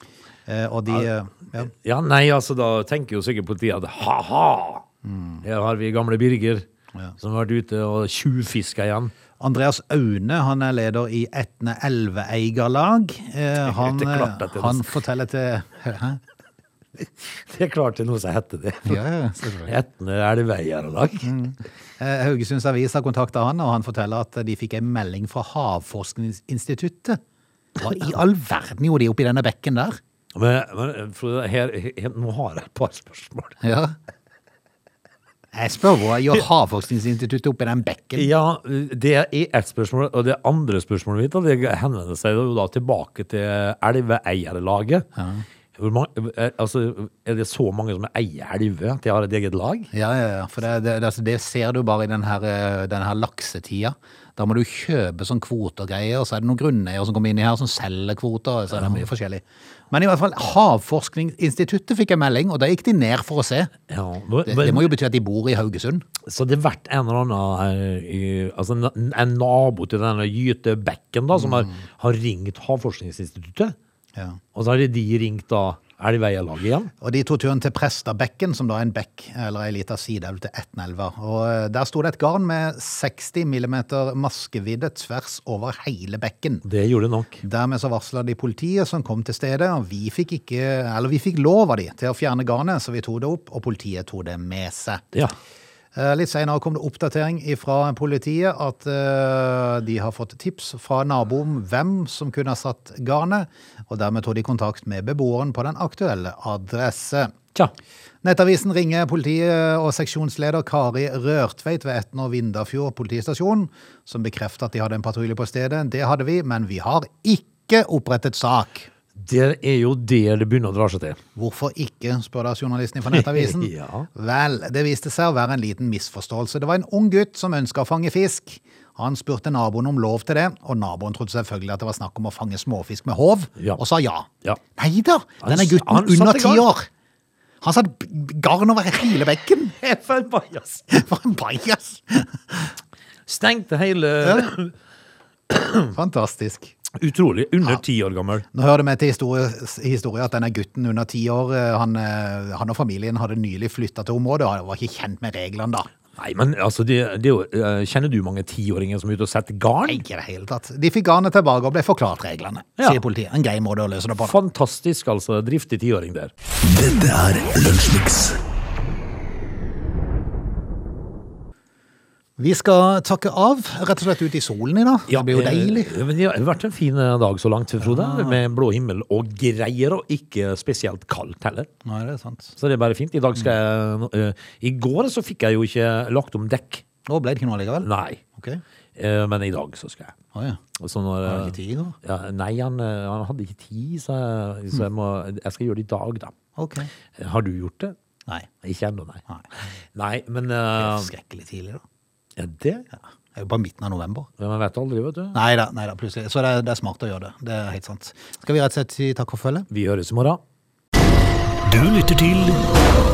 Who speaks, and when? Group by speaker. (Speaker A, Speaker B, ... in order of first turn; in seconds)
Speaker A: 0.5-1.7, 5.0-5.4, 9.4-16.2, 18.9-19.7, 21.2-27.2, 27.8-30.0, 33.6-33.9, 35.5-38.3, 45.1-45.4, 49.9-63.7, 64.4-66.0, 71.4-71.8, 77.0-86.6, 87.4-95.0, 95.9-107.3, 108.2-118.9, 121.4-136.9, 137.6-139.7, 140.9-142.7, 145.9-146.7, 148.5-155.9, 159.9-164.4, 172.4-175.9, 177.8-178.4, 181.8-182.5, 187.1-188.6, 190.3-190.6, 191.2-191.9, 196.6-196.9, 200.8-201.8, 203.3-204.3, 205.3-209.7
Speaker B: 1.0-4.9, 5.4-6.7, 7.2-9.1, 13.6-15.0, 17.2-19.0, 19.6-21.3, 30.4-33.6, 38.1-45.1, 45.8-49.9, 58.7-59.1, 63.9-64.9, 66.2-73.8, 74.5-76.9, 86.6-87.4, 119.2-121.2, 123.1-124.1, 135.4-136.7, 139.8-140.9, 143.3-144.7, 145.5-145.9, 146.9-148.4, 156.2-160.0, 164.2-166.3, 175.1-181.7, 182.6-186.8, 187.8-188.2, 188.9-190.2, 190.8-196.3, 197.2-197.9, 198.6-199.2, 199.9-201.1, 202.4-202.9, 204.4-205.4, 209.7-210.4
Speaker C: 166.6-168.4, 211.6-212.6